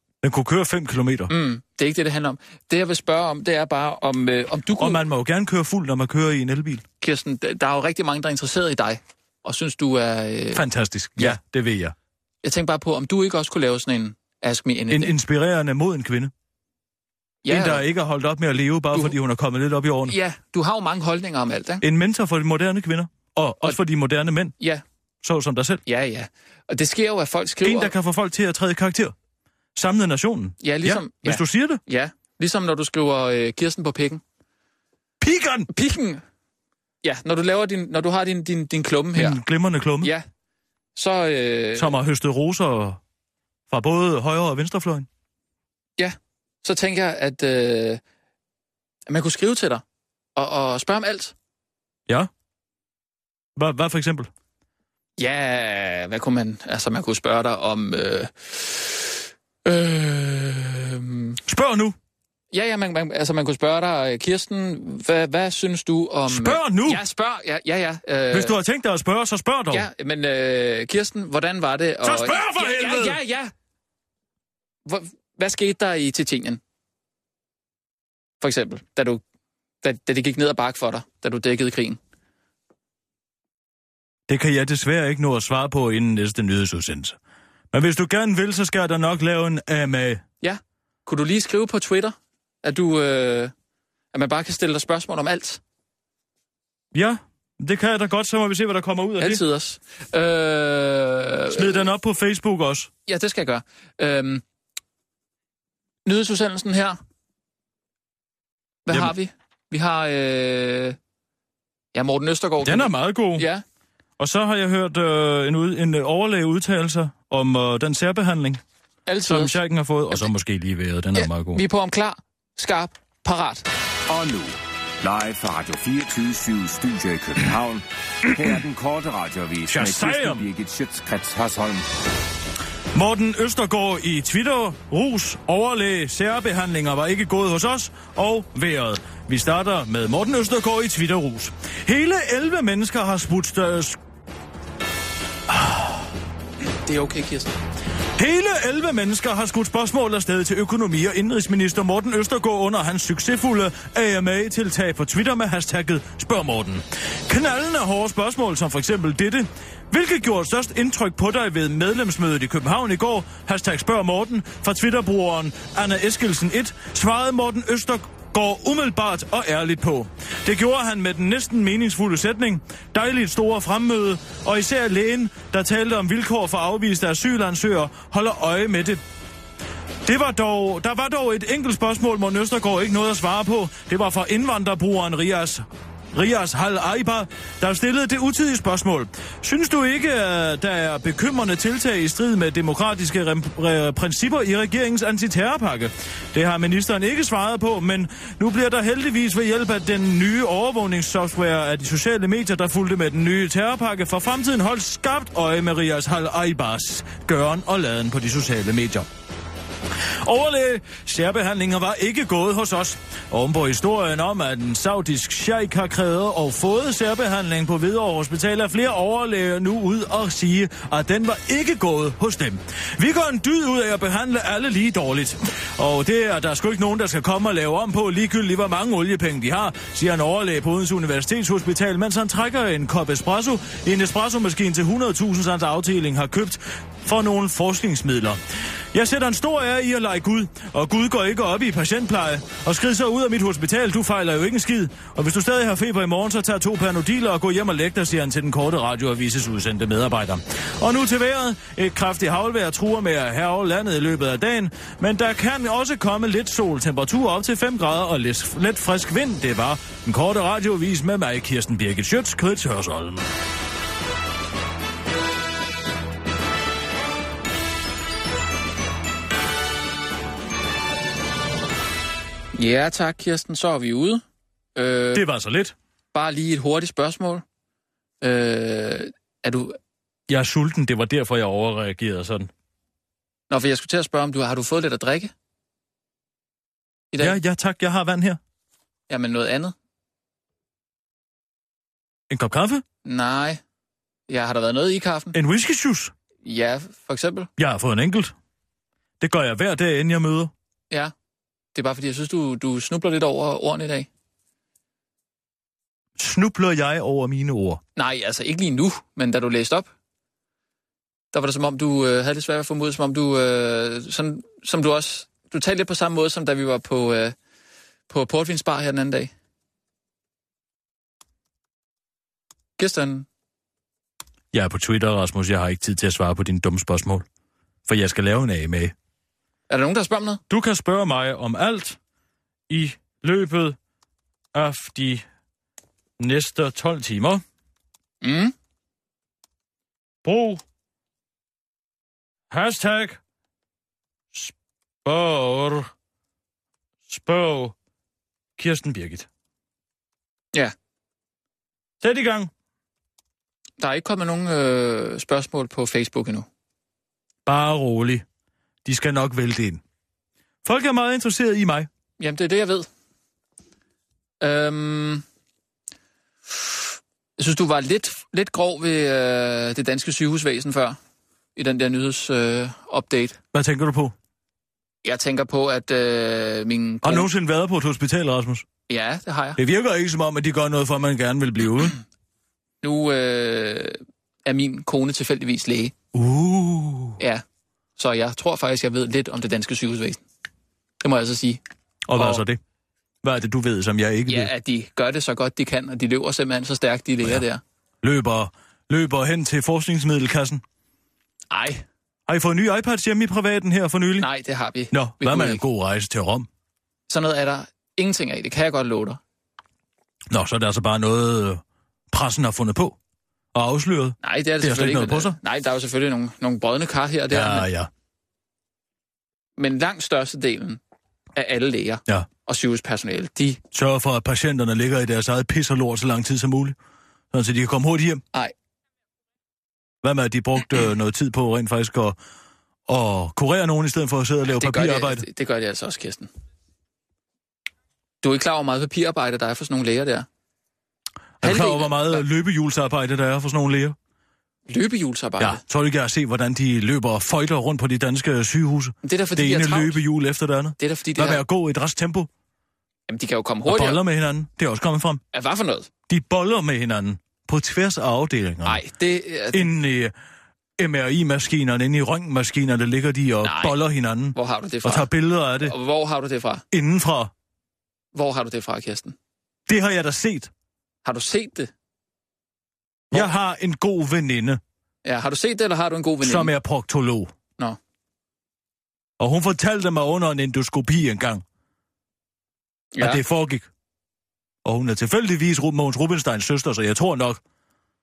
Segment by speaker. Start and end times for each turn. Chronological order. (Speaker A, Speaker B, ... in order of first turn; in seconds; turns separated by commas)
Speaker A: 0.2-1.3, Speaker B: 1.3-5.0, Speaker A: 4.8-6.8, Speaker B: 7.0-10.6, Speaker A: 10.5-11.9, Speaker B: 12.4-15.2, Speaker A: 14.9-16.3, Speaker B: 17.4-17.8, Speaker A: 17.5-20.1, Speaker B: 20.1-21.8, Speaker A: 21.8-24.5, Speaker A: 25.2-25.8, Speaker B: 25.9-27.9, Speaker A: 27.6-29.1, Speaker A: 29.7-31.8, Speaker B: 30.6-34.2, Speaker A: 35.2-35.7, Speaker B: 35.7-36.2, Speaker B: 37.0-39.4, Speaker A: 39.1-40.1, Speaker B: 41.0-42.0, Speaker A: 41.8-43.0, Speaker A: 43.7-45.1, Speaker B: 46.0-48.0, Speaker B: 49.1-49.8, Speaker B: 50.4-51.3, Speaker A: 53.5-54.3, Speaker B: 55.2-61.4, Speaker A: 61.5-62.0, Speaker B: 62.5-68.5, Speaker A: 66.3-67.0, Speaker A: 68.3-69.9, Speaker B: 69.7-73.5, Speaker A: 72.0-73.2, Speaker B: 74.8-76.6, Speaker B: 78.4-79.2, Speaker B: 79.8-82.0, Speaker A: 84.3-87.2, Speaker A: 87.7-90.2, Speaker B: 90.4-93.5, Speaker B: 94.1-95.6, Speaker A: 96.9-99.4, Speaker B: 99.2-101.9, Speaker A: 101.5-102.9, Speaker B: 103.1-104.4, Speaker B: 106.0-107.0, Speaker B: 108.8-111.0, Speaker B: 111.9-113.6, Speaker A: 112.6-113.5, Speaker A: 114.2-118.6, Speaker B: 119.1-119.6, Speaker A: 119.3-121.6, Speaker B: 121.1-123.7, Speaker C: 124.1-131.8, Speaker A: 129.7-130.4, Speaker A: 132.9-144.0, Speaker A: 145.5-146.0, Speaker B: 146.7-147.5, Speaker A: 148.2-179.0, Speaker A: 180.0-209.1, Speaker A: 210.2-238.4, Speaker A: 238.9-263.3, Speaker B: 272.5-274.2, Speaker B: 274.8-275.2, Speaker A: 275.1-275.7, Speaker B: 276.1-277.4, Speaker B: 278.2-279.8, Speaker A: 280.3-282.5, Speaker B: 283.5-285.3, Speaker B: 287.1-287.4, Speaker A: 287.2-288.4, Speaker B: 289.1-289.7, Speaker A: 292.3-292.8, Speaker B: 293.0-293.6, Speaker B: 294.3-295.4, Speaker A: 295.3-296.1, Speaker B: 296.4-297.5, Speaker A: 297.6-298.3, Speaker A: 299.2-300.5, Speaker B: 301.7-304.1, Speaker A: 306.2-307.8, Speaker B: 307.9-309.9, Speaker B: 311.3-317.4, Speaker B: 318.1-319.3, Speaker B: 322.8-323.2, Speaker A: 324.5-327.2, Speaker A: 327.9-328.9, Speaker B: 329.7-330.4, Speaker A: 330.5-332.0, Speaker A: 332.7-333.8, Speaker A: 334.5-335.2, Speaker A: 336.2-337.4, Speaker B: 338.2-338.5, Speaker A: 340.2-340.6, Speaker A: 342.5-343.2, Speaker A: 344.3-345.9, Speaker A: 347.1-347.7, Speaker A: 348.6-349.3, Speaker A: 352.0-352.5, Speaker B: 353.8-356.5, Speaker A: 357.4-358.2, Speaker A: 358.8-359.8, Speaker A: 360.6-361.9, Speaker B: 362.2-362.9, Speaker B: 364.4-365.2, Speaker B: 367.4-371.0, Speaker B: 371.6-373.4, Speaker A: 373.5-374.1, Speaker B: 375.0-377.3, Speaker A: 377.0-378.6, Speaker B: 378.9-379.6, Speaker A: 379.6-382.0, Speaker B: 382.8-385.9, Speaker A: 386.1-387.2, Speaker B: 387.2-387.4, Speaker B: 388.0-390.2, Speaker B: 391.0-391.6, Speaker A: 392.1-392.6, Speaker B: 392.1-392.4, Speaker A: 393.2-394.5, Speaker B: 394.3-397.6, Speaker A: 398.0-400.6, Speaker B: 401.5-401.8, Speaker A: 402.3-404.3, Speaker B: 404.2-405.6, Speaker A: 404.9-406.5, Speaker B: 407.1-409.2, Speaker A: 410.3-413.0, Speaker A: 413.5-415.4, Speaker B: 414.2-417.7, Speaker A: 417.3-417.9, Speaker B: 419.6-420.8, Speaker B: 421.3-423.6, Speaker A: 423.7-426.8, Speaker A: 427.3-428.2, Speaker A: 430.0-432.2, Speaker A: 432.9-435.2, Speaker B: 434.5-436.3, Speaker B: 438.2-440.3, Speaker A: 441.4-443.9, Speaker B: 441.4-442.2, Speaker B: 444.7-445.6, Speaker A: 445.4-452.3, Speaker B: 449.0-450.0, Speaker B: 450.8-451.4, Speaker B: 453.1-454.0, Speaker A: 453.7-455.2, Speaker B: 455.3-455.9, Speaker A: 456.1-458.8, Speaker B: 458.6-459.7, Speaker A: 459.5-460.1, Speaker A: 460.8-465.7, Speaker B: 463.4-463.8, Speaker B: 464.3-465.1, Speaker B: 465.6-466.6, Speaker A: 466.7-467.3, Speaker B: 468.1-469.1, Speaker A: 469.7-470.5, Speaker B: 471.0-471.7, Speaker A: 473.1-474.6, Speaker B: 475.0-476.5, Speaker A: 476.2-477.3, Speaker A: 479.2-481.4, Speaker B: 482.9-483.2, Speaker A: 483.0-483.7, Speaker A: 484.6-487.4